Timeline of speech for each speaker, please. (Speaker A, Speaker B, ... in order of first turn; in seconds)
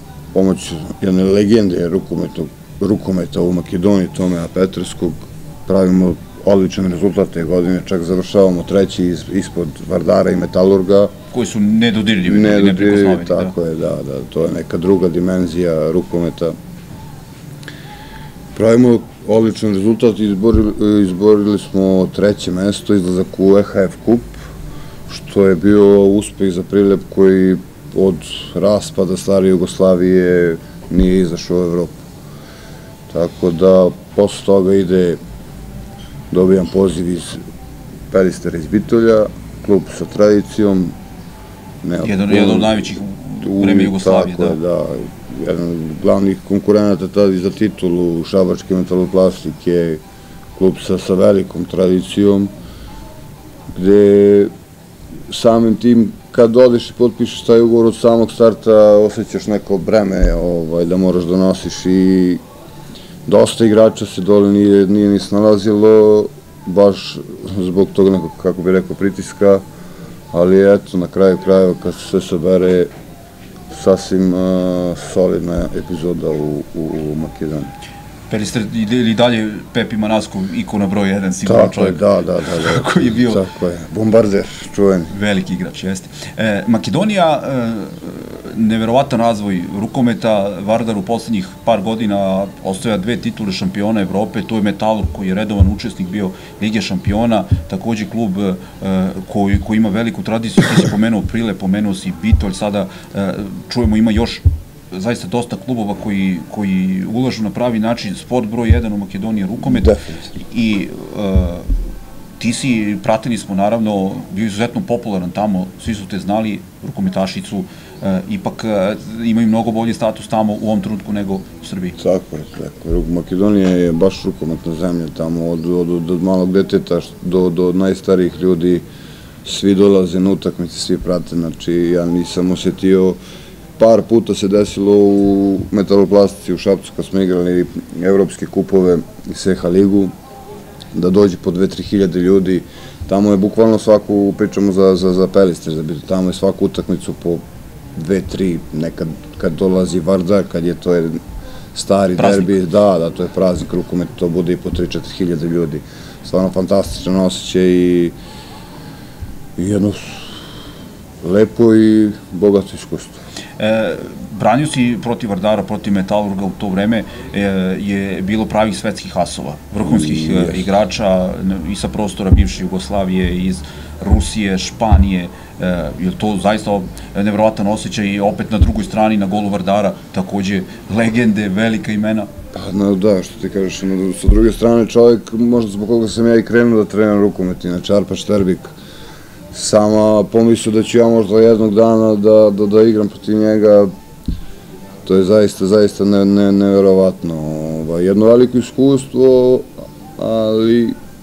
Speaker A: 0.3-11.1, 12.2-16.5, 18.6-24.4, 25.1-32.0, 33.1-35.2, 36.3-37.4, 38.1-41.0, 41.8-50.0, 50.6-52.5, 53.7-54.5, 55.3-62.4, 63.3-69.6, 70.3-72.9, 73.7-77.7, 81.5-85.1, 109.6-110.3, 122.0-128.8, 129.4-133.2, 133.8-140.1, 140.9-147.4, 147.9-151.2, 151.7-158.2, 159.6-160.4, 161.2-163.2, 169.8-170.7, 182.5-188.8, 189.5-193.9, 195.1-200.9
Speaker B: 11.3-13.5, 42.0-44.6, 78.3-83.4, 85.1-111.8, 112.4-122.0, 152.2-152.5, 163.6-182.3